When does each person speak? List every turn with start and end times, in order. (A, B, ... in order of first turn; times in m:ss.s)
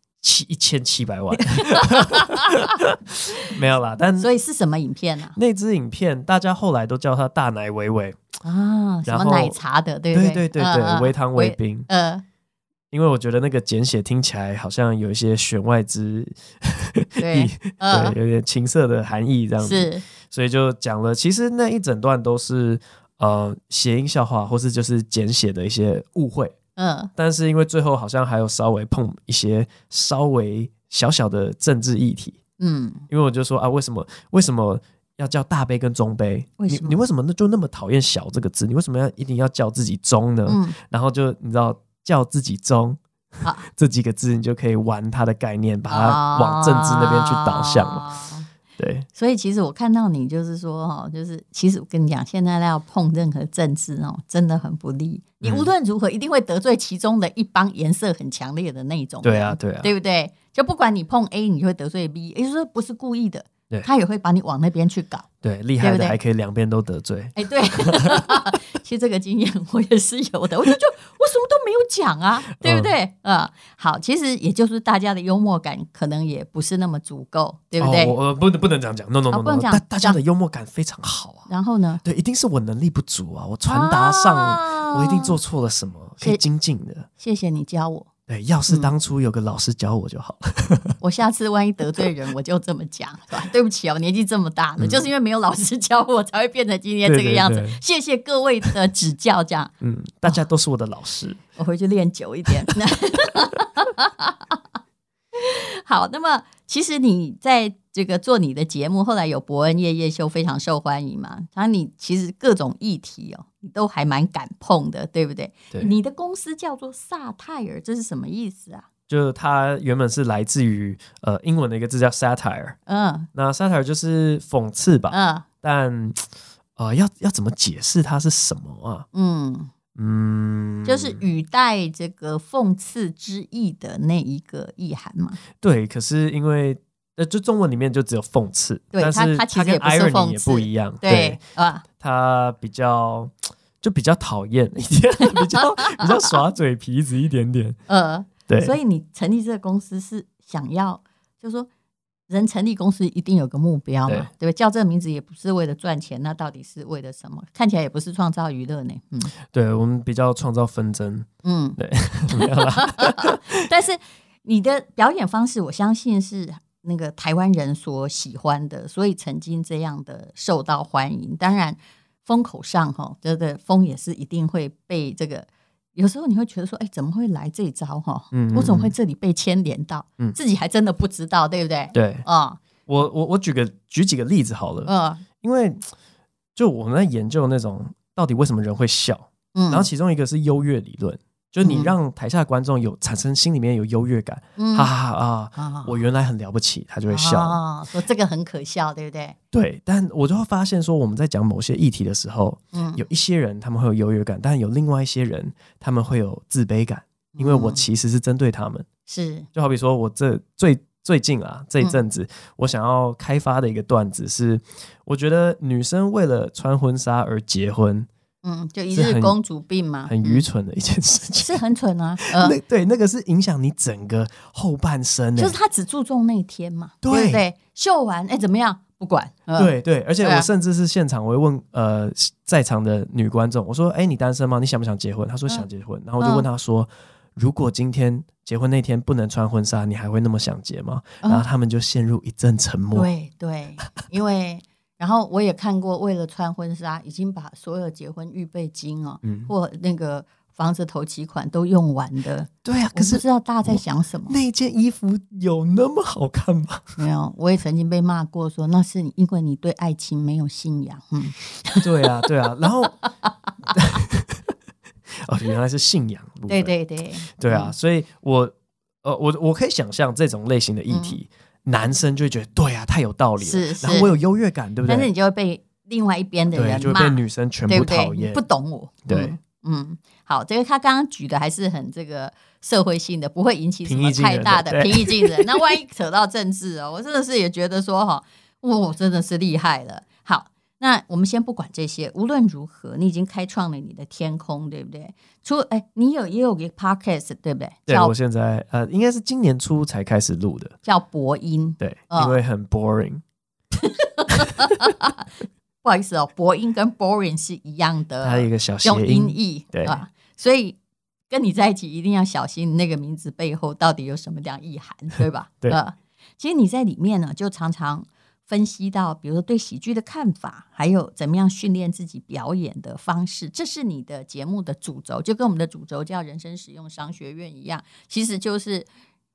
0:00.2-0:04.3 A
0:01.6-0:02.6 B
0:04.2-0:05.4 B
0:05.4-0:08.2 A
0:08.4-0:12.2 B
0:09.1-0:09.6 A
0:10.1-0:11.9 A
0:12.9-0:26.6 A
0:17.2-0:18.2 B
0:19.6-0:20.0 B
0:26.8-0:27.1 B
0:27.2-0:32.4 A
0:32.6-0:33.0 B
0:33.1-0:43.0 A
0:36.6-0:37.0 B
0:40.5-0:40.8 B
0:43.6-0:48.1 A
0:45.9-0:48.5 B
0:48.8-0:49.1 A
0:49.2-1:05.3 B
0:55.4-0:55.7 A
0:59.2-0:59.9 A
1:05.4-1:08.3 A
1:05.8-1:06.2 B
1:07.4-1:18.2 B
1:12.6-1:12.9 A
1:17.8-1:21.5 A
1:19.3-1:20.2 B
1:21.5-1:22.0 B
1:22.0-1:27.1 A
1:23.7-1:25.4 B
1:27.2-1:28.1 B
1:28.3-1:31.0 A
1:31.0-1:39.7 B
1:34.8-1:35.0 A
1:37.0-1:37.8 A
1:39.8-1:41.4 A
1:41.6-1:44.6 B
1:45.3-1:58.8 B
1:59.1-2:02.8 A
2:02.9-2:03.3 B
2:03.3-2:06.2 A
2:05.1-2:05.5 B
2:06.8-2:09.1 A
2:09.1-2:09.7 B
2:10.0-2:11.2 A
2:10.8-2:15.4 B
2:15.6-2:21.4 A
2:18.9-2:21.8 B
2:22.0-2:27.8 A
2:25.5-2:26.3 B
2:27.9-2:31.7 B
2:28.5-2:28.8 A
2:32.3-2:39.3 B
2:39.5-2:41.3 A
2:41.4-2:41.8 B
2:41.8-2:43.4 A
2:42.3-3:02.6 B
2:58.3-2:58.9 A
3:01.9-3:02.3 A
3:02.9-3:05.8 A
3:04.9-3:05.2 B
3:06.6-3:17.6 A
3:09.6-3:09.9 B
3:11.6-3:11.9 B
3:14.6-3:14.9 B
3:15.6-3:15.9 B
3:17.1-3:19.4 B
3:19.5-3:28.9 A
3:22.7-3:23.0 B
3:27.4-3:27.8 B
3:29.1-3:29.5 B
3:29.6-3:38.1 A
3:38.4-3:40.4 B
3:38.9-3:39.4 A
3:40.1-3:41.6 A
3:41.4-3:42.6 B
3:42.2-3:45.6 A
3:45.4-3:50.5 B
3:47.0-3:47.4 A
3:49.6-4:03.1 A
3:56.2-3:56.5 B
4:02.9-4:14.4 B
4:09.2-4:09.5 A
4:12.6-4:17.0 A
4:17.0-4:22.7 B
4:21.8-4:23.0 A
4:23.7-4:24.4 A
4:25.2-4:26.7 A
4:26.5-4:27.7 B
4:27.3-4:35.1 A
4:30.9-4:31.2 B
4:33.4-4:34.1 B
4:34.8-4:58.1 B
4:36.5-4:38.4 A
4:39.1-4:39.4 A
4:43.8-4:45.8 A
4:57.9-5:00.8 A
5:00.8-5:02.4 B
5:01.8-5:03.2 A
5:03.8-5:05.2 B
5:05.8-5:10.8 B
5:08.2-5:10.0 A
5:11.3-5:28.9 B